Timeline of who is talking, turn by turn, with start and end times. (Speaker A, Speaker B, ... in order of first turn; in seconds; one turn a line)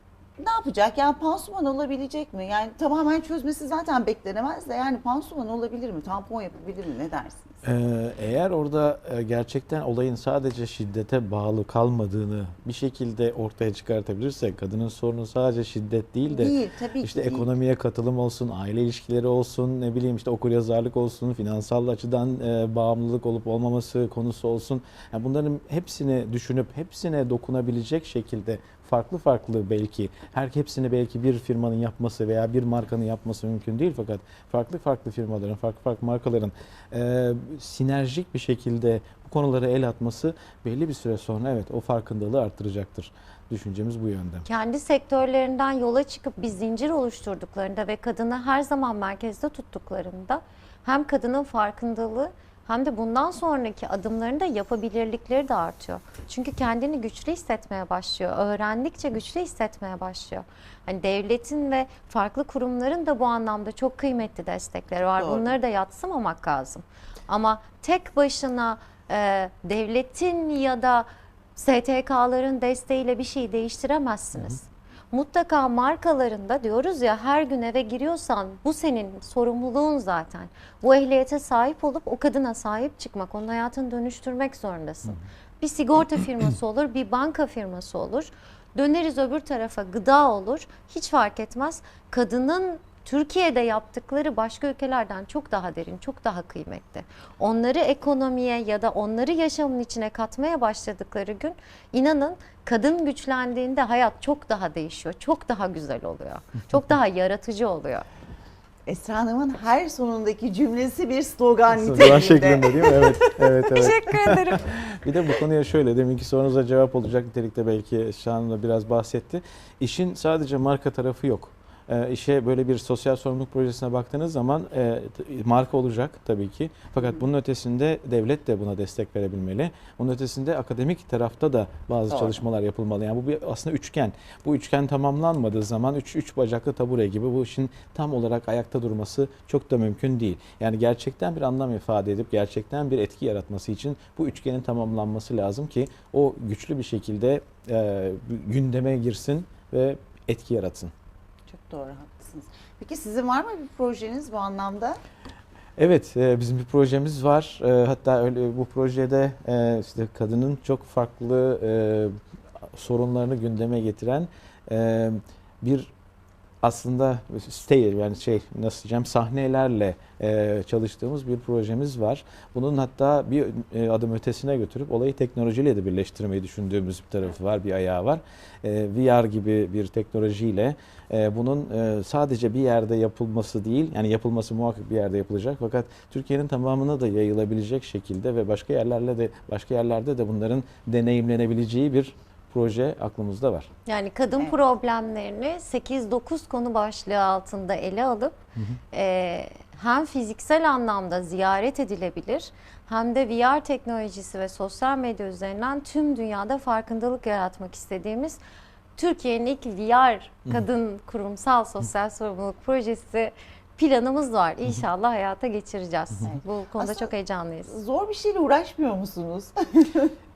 Speaker A: 0.4-7.6
Speaker B: 7.6-44.5
Speaker A: 16.3-17.5
Speaker C: 44.5-108.1
Speaker A: 65.2-65.5
Speaker A: 108.9-113.5
Speaker B: 111.7-150.9
Speaker C: 113.7-114.7
Speaker A: 132.1-132.4
Speaker A: 151.5-155.0
Speaker B: 155.8-162.2
Speaker B: 162.7-165.9
Speaker B: 166.6-193.7
Speaker C: 193.9-198.4
Speaker C: 198.9-208.4
Speaker C: 209.0-217.7
Speaker A: 216.2-217.1
Speaker A: 217.7-220.1